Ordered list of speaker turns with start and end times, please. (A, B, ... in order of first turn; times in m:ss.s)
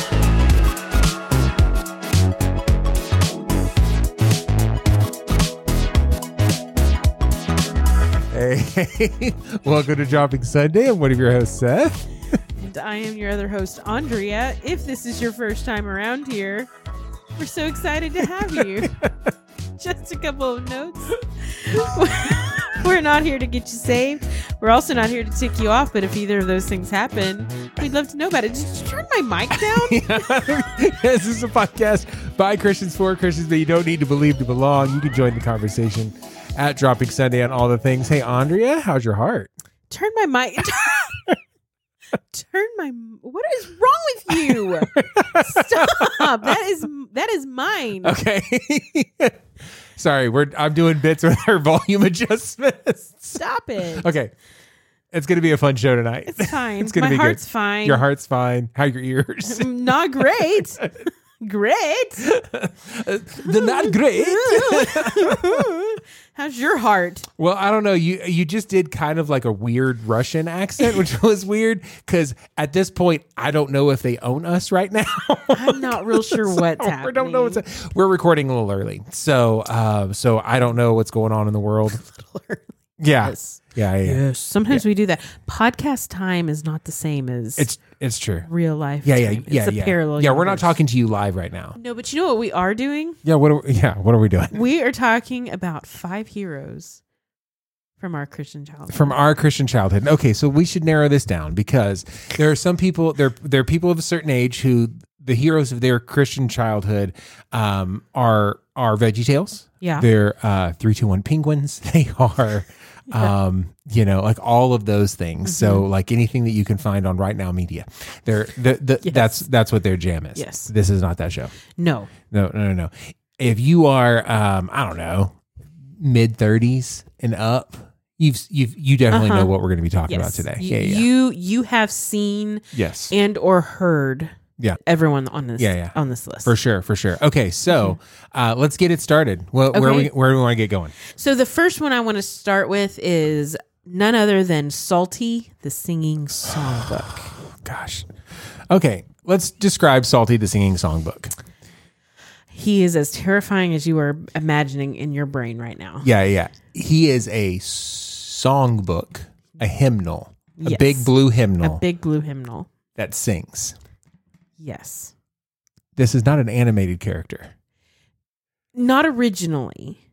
0:08.3-0:12.1 A
0:12.6-0:16.7 B
0:17.4-0:18.9 B
0:18.8-0:19.1 A
0:19.8-0:30.2 B
0:29.6-0:39.5 A
0:39.9-0:41.2 B
0:42.3-0:48.2 B
0:44.3-0:46.5 A
0:48.0-0:49.4 A
0:50.0-0:53.4 A
0:53.4-0:54.1 B
0:54.0-0:54.3 A
0:55.1-1:00.5 A
0:56.3-0:58.0 B
0:59.5-1:00.9 B
1:01.4-1:02.3 B
1:02.2-1:05.7 A
1:03.4-1:07.3 B
1:07.4-1:22.0 A
1:15.5-1:17.6 B
1:21.9-1:22.7 B
1:23.0-1:24.8 A
1:23.2-1:27.7 B
1:27.6-1:28.5 A
1:28.5-1:30.8 B
1:29.0-1:31.8 A
1:31.8-1:33.2 B
1:33.2-1:34.6 A
1:34.5-1:37.0 B
1:38.0-1:39.2 B
1:38.9-2:01.5 A
1:55.4-1:55.9 B
1:59.0-1:59.5 B
2:00.4-2:00.7 B
2:01.8-2:02.1 B
2:02.3-2:05.4 A
2:06.0-2:11.1 A
2:09.1-2:09.5 B
2:10.1-2:16.5 B
2:12.7-2:13.1 A
2:15.6-2:15.9 A
2:16.4-2:21.0 A
2:17.7-2:18.0 B
2:19.7-2:20.1 B
2:21.1-2:27.4 B
2:26.5-2:26.8 A
2:27.5-2:28.1 A
2:28.7-2:31.3 A
2:32.5-2:36.1 B
2:36.0-2:41.8 A
2:40.6-2:42.7 B
2:43.0-2:43.8 A
2:44.6-2:45.1 B
2:46.0-2:47.5 A
2:48.8-2:50.0 B